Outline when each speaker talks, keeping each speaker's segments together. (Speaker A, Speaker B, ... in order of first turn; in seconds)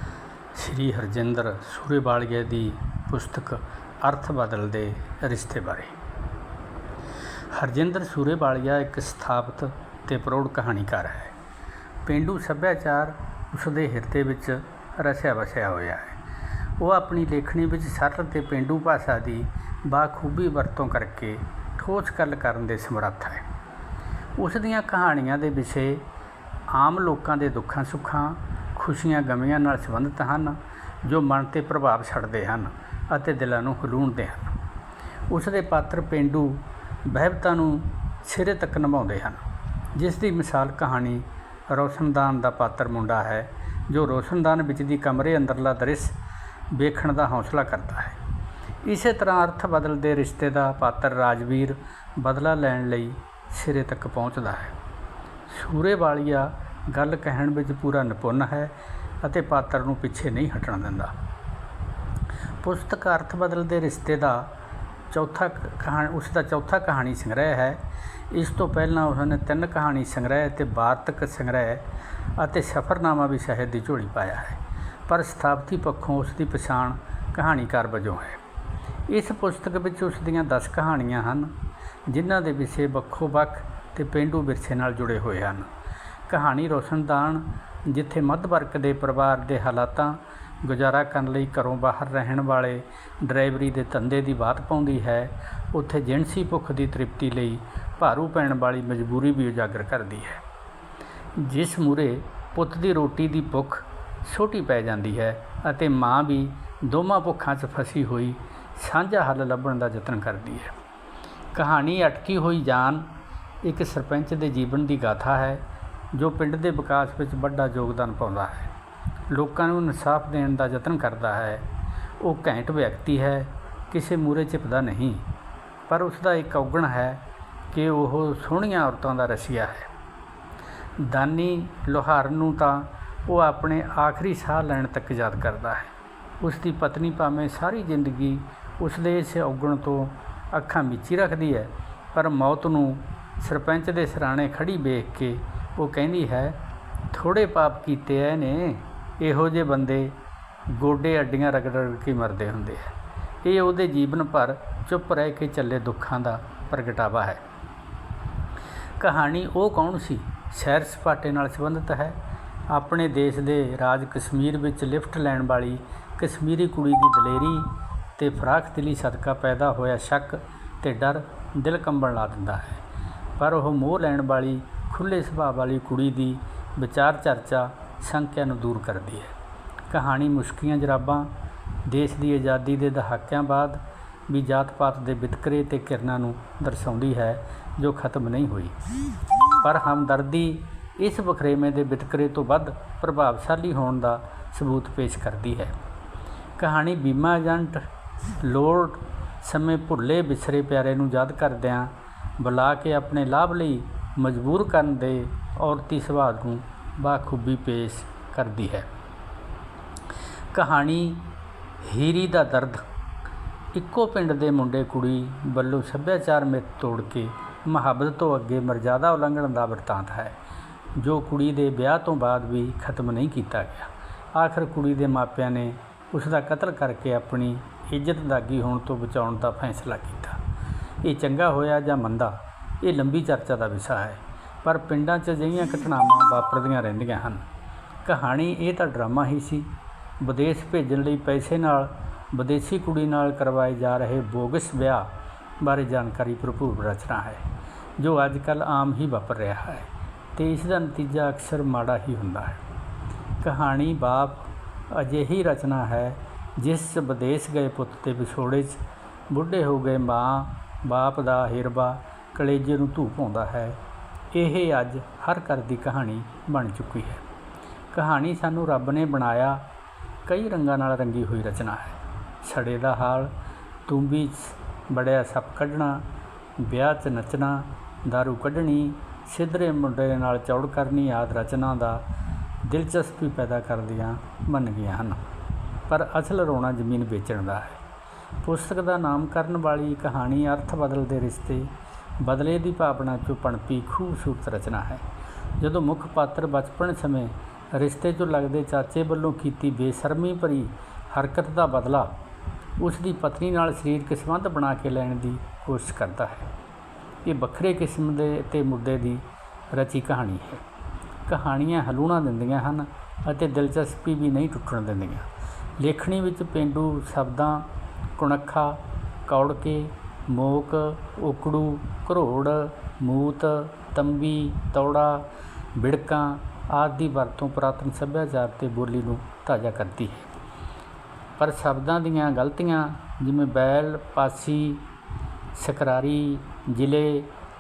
Speaker A: 0.5-6.0, 7.5-11.3, 12.1-16.2, 16.8-23.5, 24.4-26.1, 26.7-34.6, 35.3-39.4, 39.9-46.2, 46.7-48.2, 48.9-54.8, 55.5-61.1, 62.6-64.5, 65.1-78.4, 79.1-81.5, 82.1-85.7, 86.3-100.4, 101.4-110.8, 111.5-113.1, 113.6-118.7, 119.3-121.7, 122.2-125.2, 125.9-129.9, 131.0-146.6, 147.1-150.2, 150.7-157.4, 159.0-162.2, 162.7-172.8, 173.4-179.3, 179.9-181.3, 181.9-188.8, 189.6-195.8, 196.6-208.9, 210.5-211.3, 211.8-212.8, 213.7-220.4, 221.0-230.4, 231.0-237.4, 238.1-239.7, 240.2-245.1, 245.6-247.4, 248.0-252.6, 253.4-263.8, 264.3-267.2, 267.9-269.6, 270.3-273.3, 273.9-276.1, 276.6-282.0, 282.6-285.2, 285.9-287.8, 288.4-291.7, 292.2-295.0, 295.6-302.2, 302.8-306.5, 307.2-310.6, 311.3-315.3, 315.8-330.3, 331.4-334.8, 335.5-337.3